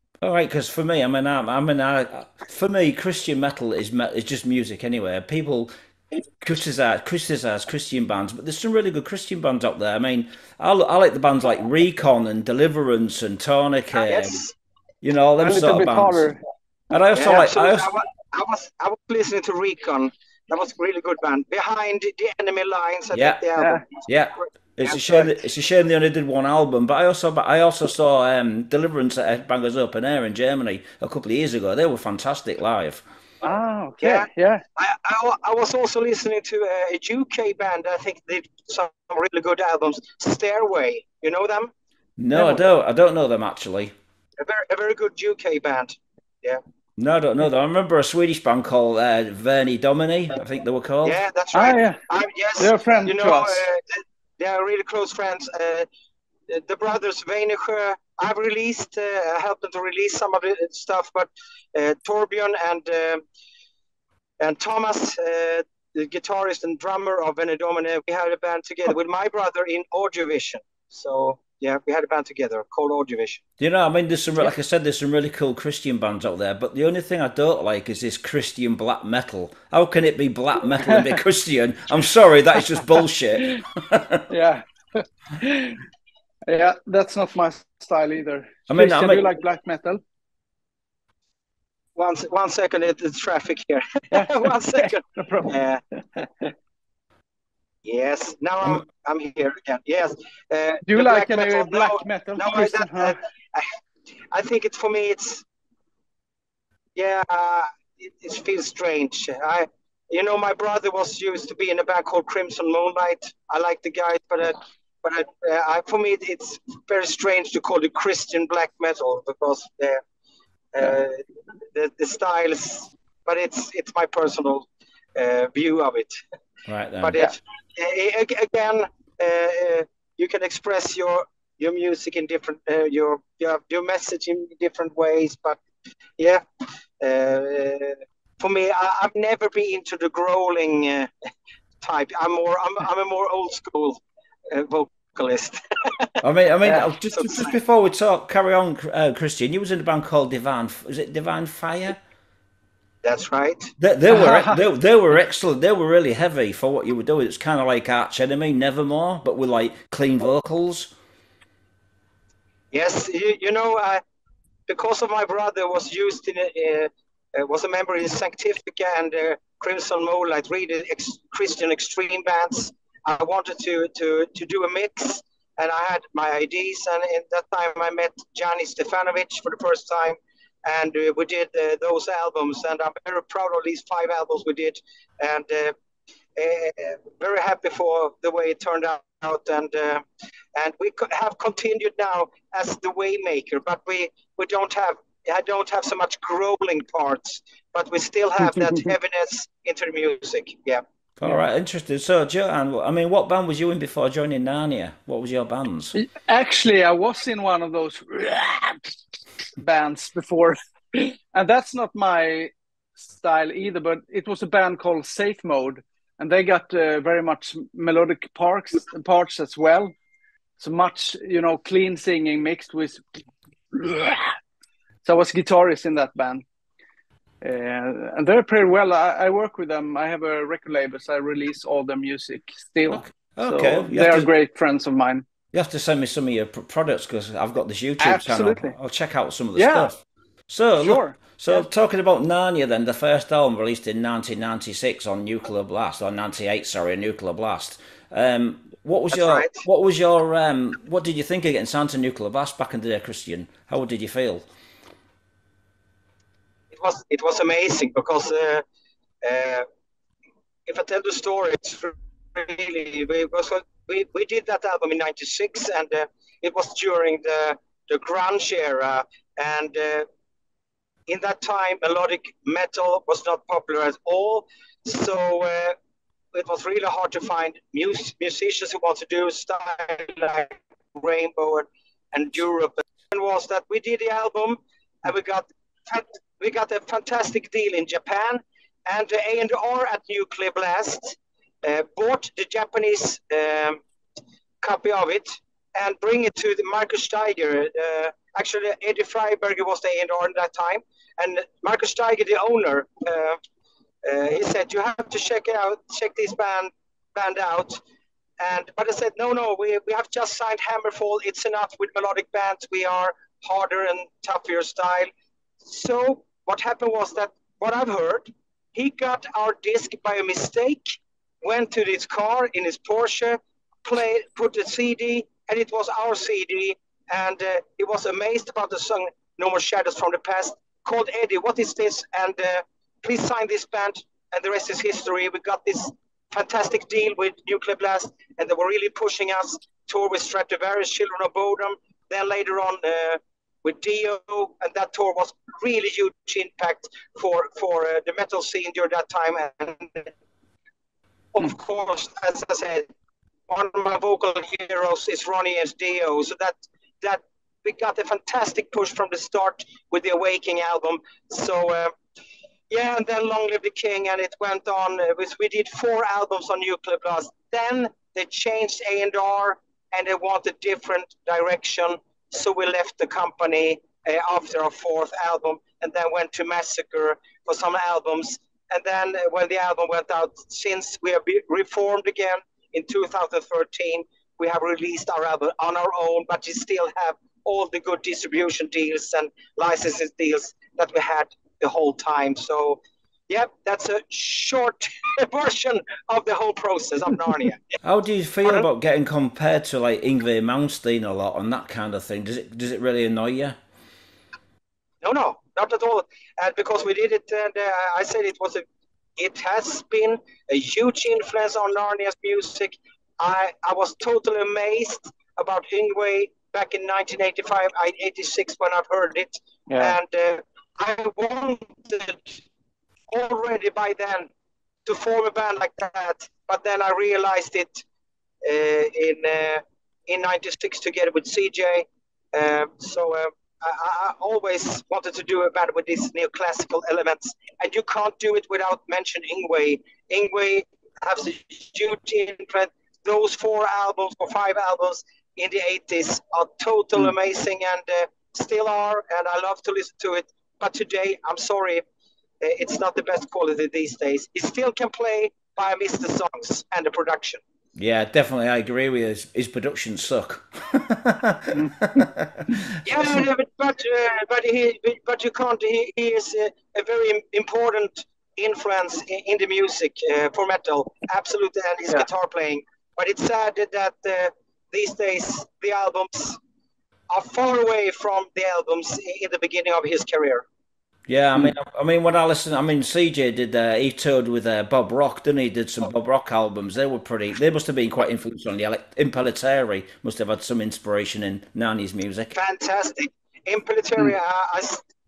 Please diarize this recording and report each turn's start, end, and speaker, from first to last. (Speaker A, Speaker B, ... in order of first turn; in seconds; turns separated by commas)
Speaker A: 0.2-5.7, Speaker A: 6.4-14.4, Speaker B: 14.0-14.6, Speaker A: 15.0-16.3, Speaker C: 15.4-16.4, Speaker A: 16.9-17.9, Speaker B: 17.2-23.8, Speaker A: 23.1-23.4, Speaker C: 23.6-23.9, Speaker A: 24.1-33.0, Speaker B: 24.4-25.3, Speaker C: 33.4-34.6, Speaker B: 34.0-41.7, Speaker A: 42.2-43.9, Speaker C: 42.3-42.6, Speaker B: 44.4-46.6, Speaker A: 47.0-51.2, Speaker B: 51.0-55.9, Speaker C: 51.5-52.0, Speaker C: 52.6-53.6, Speaker B: 56.5-63.2, Speaker B: 64.4-73.4, Speaker A: 73.6-84.3, Speaker C: 80.9-81.2, Speaker C: 84.3-85.8, Speaker C: 86.5-90.0, Speaker A: 88.7-89.3, Speaker B: 92.0-95.8, Speaker C: 94.1-95.5, Speaker C: 96.2-96.5, Speaker B: 97.8-103.7, Speaker C: 100.9-103.2, Speaker B: 104.3-105.4, Speaker B: 107.0-120.0, Speaker B: 120.7-126.1, Speaker A: 126.7-127.2, Speaker B: 127.0-135.6, Speaker B: 136.2-136.4, Speaker B: 137.0-141.1, Speaker B: 141.8-146.2, Speaker A: 146.2-152.0, Speaker B: 147.1-147.5, Speaker B: 153.0-153.7, Speaker A: 153.8-160.9, Speaker C: 154.1-154.6, Speaker B: 162.7-164.0, Speaker B: 164.7-185.8, Speaker B: 186.4-190.0, Speaker B: 190.6-200.8, Speaker A: 201.2-205.9, Speaker C: 205.9-209.0, Speaker C: 209.6-219.9, Speaker C: 220.6-223.0, Speaker C: 223.7-224.3, Speaker C: 225.0-226.4, Speaker C: 227.4-235.2, Speaker A: 232.9-234.3, Speaker A: 235.5-240.0, Speaker C: 238.0-238.8, Speaker C: 239.6-239.9, Speaker A: 240.5-254.5, Speaker C: 240.8-241.6, Speaker B: 249.1-249.6, Speaker B: 256.7-258.6, Speaker B: 259.2-259.7, Speaker B: 260.7-270.1, Speaker B: 271.1-275.8, Speaker B: 276.3-293.8, Speaker B: 294.6-303.4, Speaker B: 304.1-307.8, Speaker B: 308.4-315.1, Speaker B: 315.6-350.1, Speaker B: 351.3-352.9, Speaker B: 353.5-361.9, Speaker B: 362.7-397.8, Speaker A: 397.8-403.6, Speaker B: 405.0-408.6, Speaker B: 409.2-422.4, Speaker C: 419.7-420.0, Speaker B: 423.1-424.3, Speaker B: 424.9-427.8, Speaker B: 428.4-451.8, Speaker B: 452.4-457.4, Speaker A: 457.8-462.7, Speaker C: 461.5-462.1, Speaker B: 462.8-476.4, Speaker B: 477.1-480.4, Speaker A: 481.1-492.3, Speaker B: 492.4-494.8